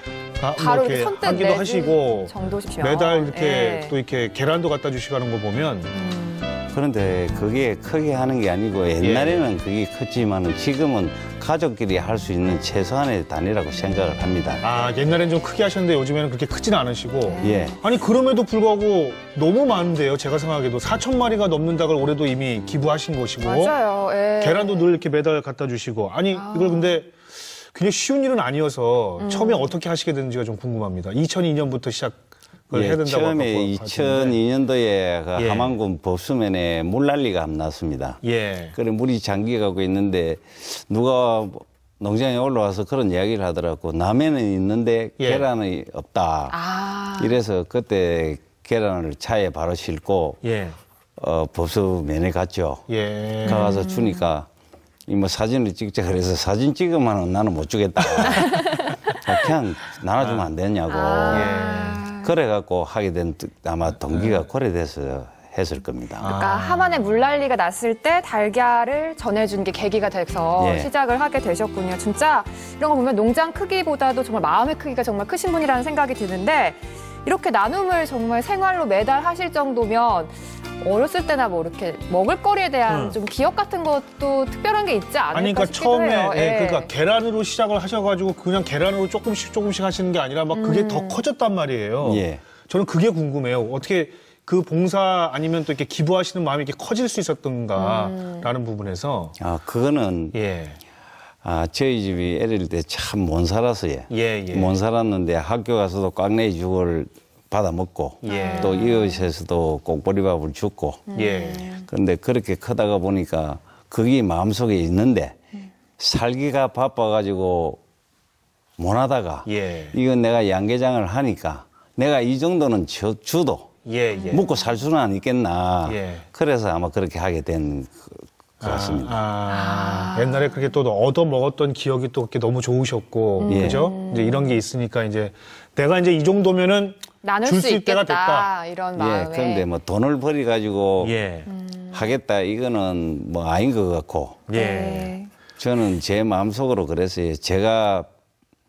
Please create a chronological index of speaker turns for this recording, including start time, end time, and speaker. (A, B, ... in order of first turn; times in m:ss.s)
0:00.4-0:05.9 A
0:00.6-0:03.9 B
0:05.9-0:06.5 B
0:06.7-0:14.7 C
0:09.0-0:09.5 A
0:14.6-0:23.8 A
0:17.2-0:17.8 B
0:17.4-0:17.8 C
0:23.4-0:24.9 B
0:24.4-0:34.4 A
0:26.3-0:27.0 B
0:29.2-0:29.7 B
0:32.7-0:38.2 C
0:35.3-0:35.8 A
0:38.2-0:38.8 A
0:38.7-0:46.6 C
0:45.2-0:45.5 A
0:46.5-0:47.4 B
0:47.2-0:50.4 C
0:50.4-0:50.8 A
0:51.2-0:52.8 C
0:52.9-0:53.7 A
0:53.4-0:54.5 C
0:53.5-0:54.3 B
0:55.1-0:58.6 C
0:58.0-0:58.4 A
0:58.3-0:59.0 B
0:59.2-1:01.5 C
1:00.2-1:00.5 A
1:00.9-1:02.3 B
1:01.3-1:02.0 A
1:02.1-1:06.3 C
1:04.1-1:04.4 A
1:06.2-1:07.0 A
1:06.3-1:26.9 B
1:10.6-1:10.9 C
1:22.9-1:23.2 A
1:25.3-1:39.4 A
1:30.5-1:31.2 B
1:32.0-1:32.4 C
1:37.7-1:38.5 B
1:39.4-1:40.4 C
1:40.3-1:40.8 A
1:41.4-1:51.1 C
1:44.1-1:44.8 A
1:48.2-1:48.7 A
1:48.3-1:49.2 B
1:51.1-1:51.8 B
1:51.2-1:51.7 A
1:51.9-1:55.4 C
1:56.0-1:57.8 C
1:58.8-2:03.8 C
1:59.4-2:00.0 A
2:03.8-2:04.4 A
2:04.1-2:04.8 B
2:04.3-2:09.2 C
2:05.8-2:06.3 A
2:08.6-2:18.5 A
2:09.5-2:10.6 B
2:13.4-2:14.6 B
2:13.5-2:13.8 C
2:17.2-2:19.7 B
2:19.0-2:21.2 C
2:21.0-2:21.5 A
2:21.5-2:22.2 B
2:21.9-2:24.5 C
2:24.5-2:25.2 A
2:24.5-2:25.3 B
2:25.6-2:28.1 C